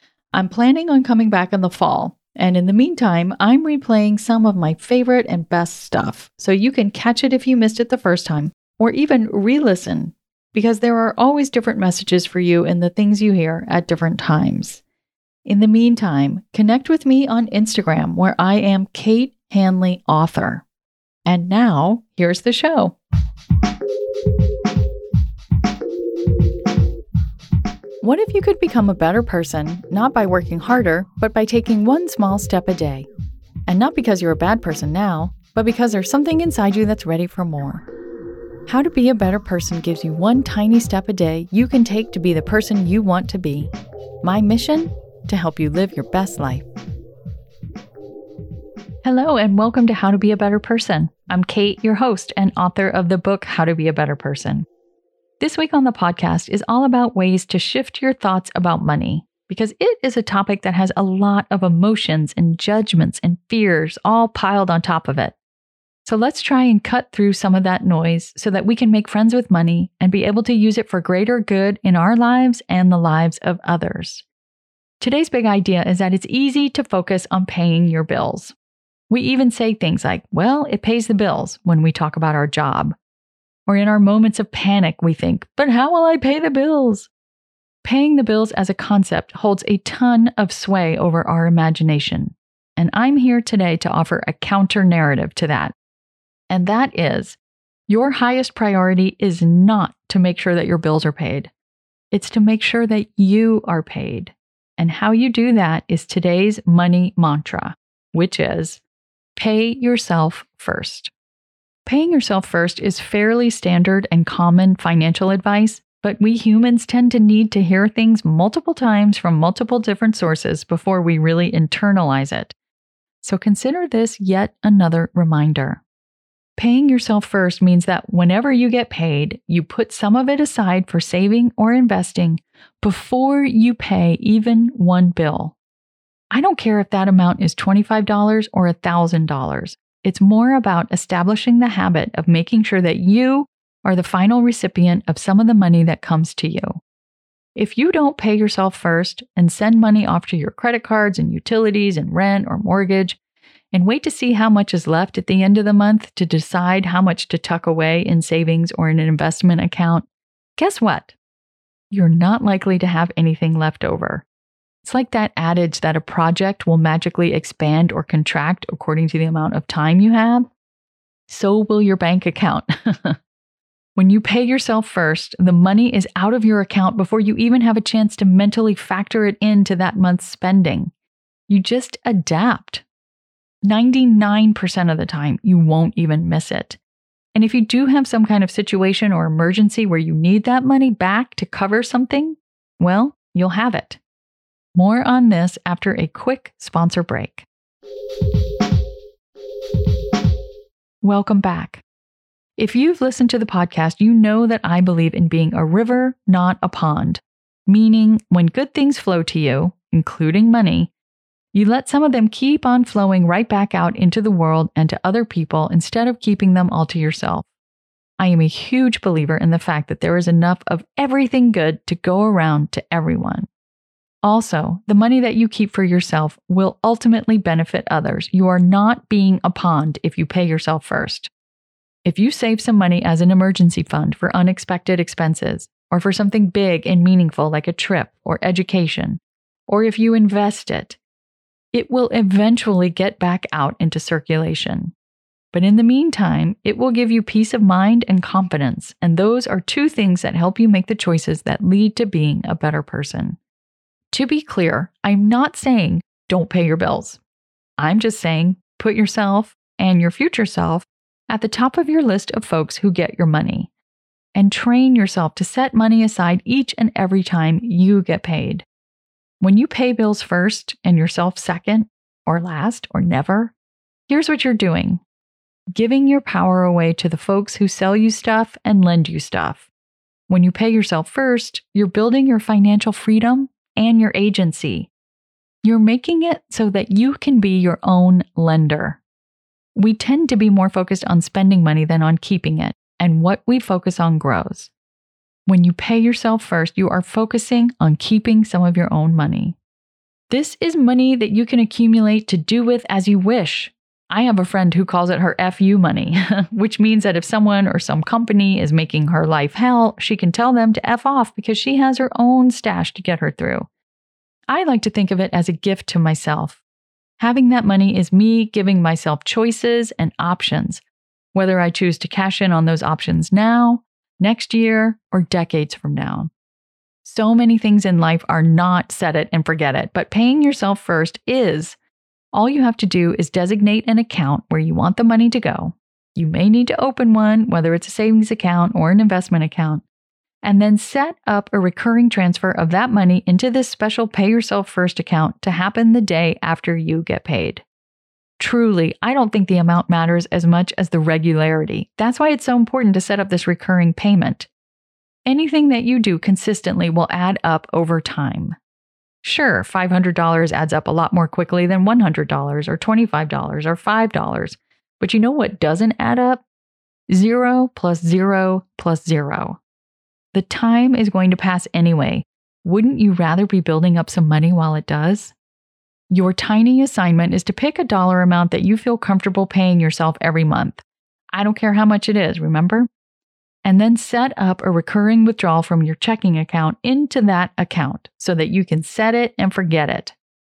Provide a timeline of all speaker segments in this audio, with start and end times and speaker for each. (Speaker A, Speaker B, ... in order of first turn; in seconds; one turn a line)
Speaker A: 0.3-14.8
Speaker A: 15.4-20.6
Speaker A: 21.2-22.9
Speaker A: 28.0-33.1
Speaker A: 33.7-37.8
Speaker A: 38.7-43.7
Speaker A: 44.2-46.6
Speaker A: 49.0-54.6
Speaker A: 55.4-65.3
Speaker A: 66.0-74.2
Speaker A: 75.0-78.5
Speaker A: 79.1-83.0
Speaker A: 83.7-87.1
Speaker A: 87.8-95.7
Speaker A: 96.5-101.5
Speaker A: 102.1-108.8
Speaker A: 109.3-111.1
Speaker A: 111.8-122.5
Speaker A: 123.2-125.8
Speaker A: 126.6-135.6
Speaker A: 136.3-146.8
Speaker A: 147.5-153.2
Speaker A: 153.7-161.1
Speaker A: 161.9-164.2
Speaker A: 164.8-170.5
Speaker A: 171.3-173.2
Speaker A: 173.9-180.9
Speaker A: 181.5-182.8
Speaker A: 183.6-186.8
Speaker A: 187.3-194.0
Speaker A: 194.7-197.4
Speaker A: 201.0-201.8
Speaker A: 202.6-210.9
Speaker A: 211.5-217.5
Speaker A: 218.2-223.5
Speaker A: 224.2-231.3
Speaker A: 232.0-241.0
Speaker A: 241.7-244.9
Speaker A: 245.5-253.4
Speaker A: 254.1-257.2
Speaker A: 257.8-263.7
Speaker A: 264.3-268.6
Speaker A: 269.4-273.5
Speaker A: 274.1-275.0
Speaker A: 275.7-279.7
Speaker A: 280.3-284.9
Speaker A: 285.6-289.0
Speaker A: 289.7-294.7
Speaker A: 295.5-299.6
Speaker A: 300.3-313.7
Speaker A: 314.5-316.6
Speaker A: 317.2-320.8
Speaker A: 321.3-326.3
Speaker A: 327.0-331.8
Speaker A: 332.3-339.8
Speaker A: 340.4-347.6
Speaker A: 348.4-354.5
Speaker A: 355.2-358.6
Speaker A: 359.2-366.4
Speaker A: 367.1-369.6
Speaker A: 370.3-375.3
Speaker A: 376.1-382.9
Speaker A: 383.6-390.1